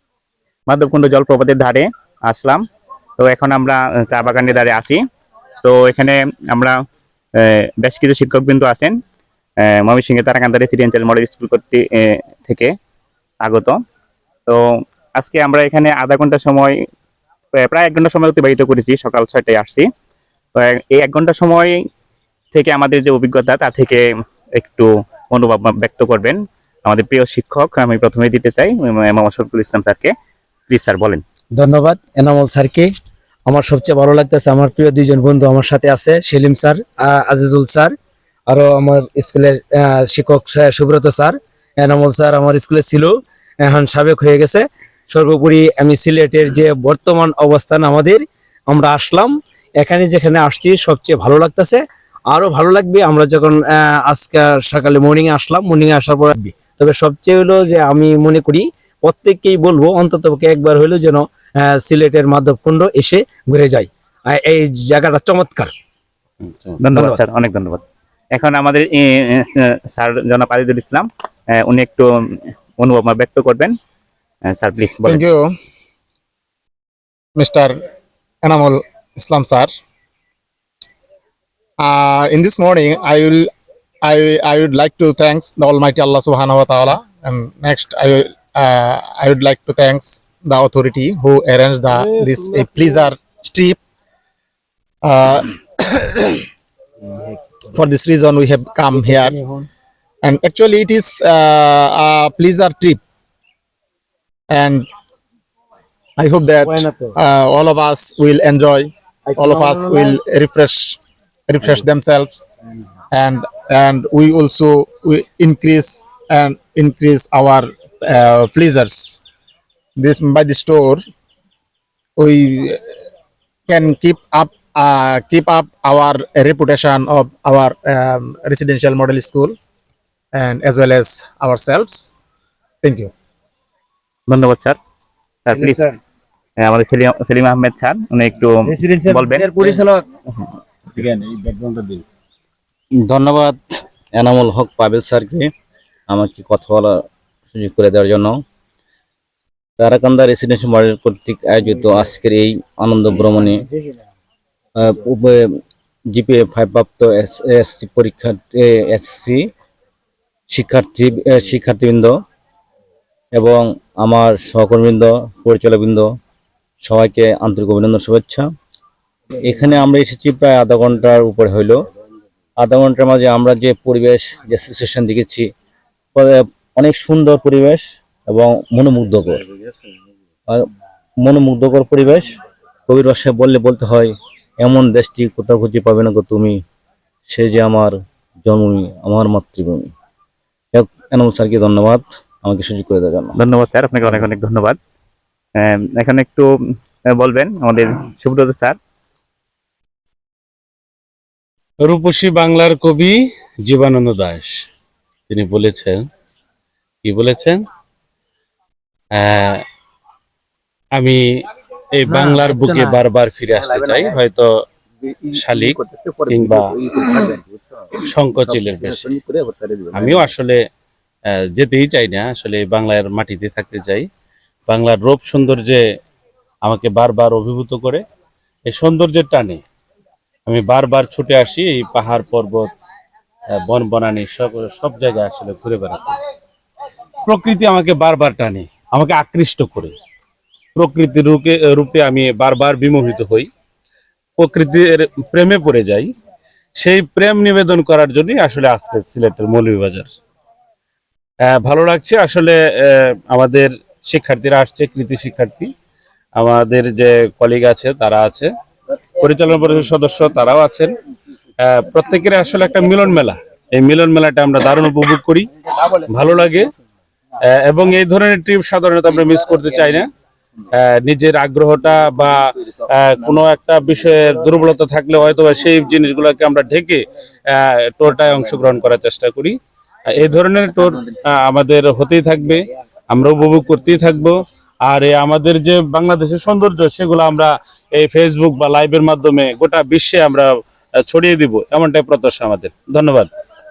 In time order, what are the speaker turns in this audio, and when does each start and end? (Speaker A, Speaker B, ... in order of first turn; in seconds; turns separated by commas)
Speaker A: 0.7-2.6, Speaker A: 3.2-5.0, Speaker A: 5.6-6.8, Speaker A: 7.4-9.0, Speaker A: 9.7-12.7, Speaker A: 13.4-13.8, Speaker A: 15.2-16.8, Speaker A: 17.6-19.9, Speaker A: 20.6-21.7, Speaker A: 22.5-24.0, Speaker A: 24.6-30.1, Speaker A: 30.7-31.2, Speaker B: 31.6-32.9, Speaker B: 33.5-37.9, Speaker B: 38.5-65.7, Speaker C: 66.4-66.8, Speaker A: 66.8-67.8, Speaker B: 66.9-67.2, Speaker A: 68.3-71.1, Speaker A: 71.6-72.1, Speaker A: 72.8-73.7, Speaker A: 74.5-75.2, Speaker D: 75.0-75.5, Speaker D: 77.3-77.8, Speaker D: 78.4-79.7, Speaker D: 81.8-83.5, Speaker D: 84.0-93.8, Speaker D: 95.0-96.4, Speaker D: 97.7-99.4, Speaker B: 98.9-99.7, Speaker D: 100.2-103.0, Speaker D: 104.5-104.8, Speaker D: 106.2-112.5, Speaker B: 106.6-107.1, Speaker B: 109.3-110.2, Speaker D: 113.1-119.2, Speaker D: 120.0-121.0, Speaker D: 122.2-122.8, Speaker D: 123.7-129.5, Speaker D: 130.3-132.1, Speaker D: 132.8-133.1, Speaker A: 134.3-134.8, Speaker A: 135.4-135.8, Speaker B: 135.5-136.0, Speaker A: 136.6-139.8, Speaker B: 138.7-140.0, Speaker C: 140.9-142.0, Speaker E: 143.0-145.5, Speaker E: 146.1-147.0, Speaker E: 147.5-148.4, Speaker E: 149.8-153.7, Speaker E: 154.8-155.6, Speaker E: 156.1-159.4, Speaker E: 160.5-162.2, Speaker E: 163.3-166.1, Speaker E: 166.8-168.5, Speaker E: 169.4-171.8, Speaker E: 172.6-175.4, Speaker E: 176.1-179.4, Speaker E: 181.2-182.3, Speaker E: 182.9-186.6, Speaker E: 187.3-189.9, Speaker E: 190.7-193.4, Speaker A: 193.4-194.8, Speaker A: 195.6-196.5, Speaker A: 197.2-198.8, Speaker C: 201.8-203.1, Speaker C: 203.7-204.6, Speaker C: 205.3-206.0, Speaker C: 207.0-207.6, Speaker C: 209.1-209.6, Speaker C: 210.9-211.2, Speaker C: 211.9-214.5, Speaker B: 212.1-213.0, Speaker E: 215.0-217.6, Speaker C: 215.3-216.7, Speaker C: 218.0-219.1, Speaker E: 218.5-220.3, Speaker C: 219.9-220.6, Speaker C: 221.5-224.1, Speaker C: 224.7-225.8, Speaker C: 226.6-228.0, Speaker C: 228.7-229.6, Speaker C: 230.5-232.7, Speaker C: 233.5-236.1, Speaker C: 237.2-239.9, Speaker C: 240.8-243.5, Speaker C: 244.4-246.1, Speaker C: 246.8-250.1, Speaker C: 251.4-255.7, Speaker C: 256.4-258.5, Speaker C: 259.2-260.9, Speaker C: 261.6-266.7, Speaker C: 267.5-270.1, Speaker C: 270.7-279.6, Speaker C: 280.1-290.5, Speaker C: 291.1-293.3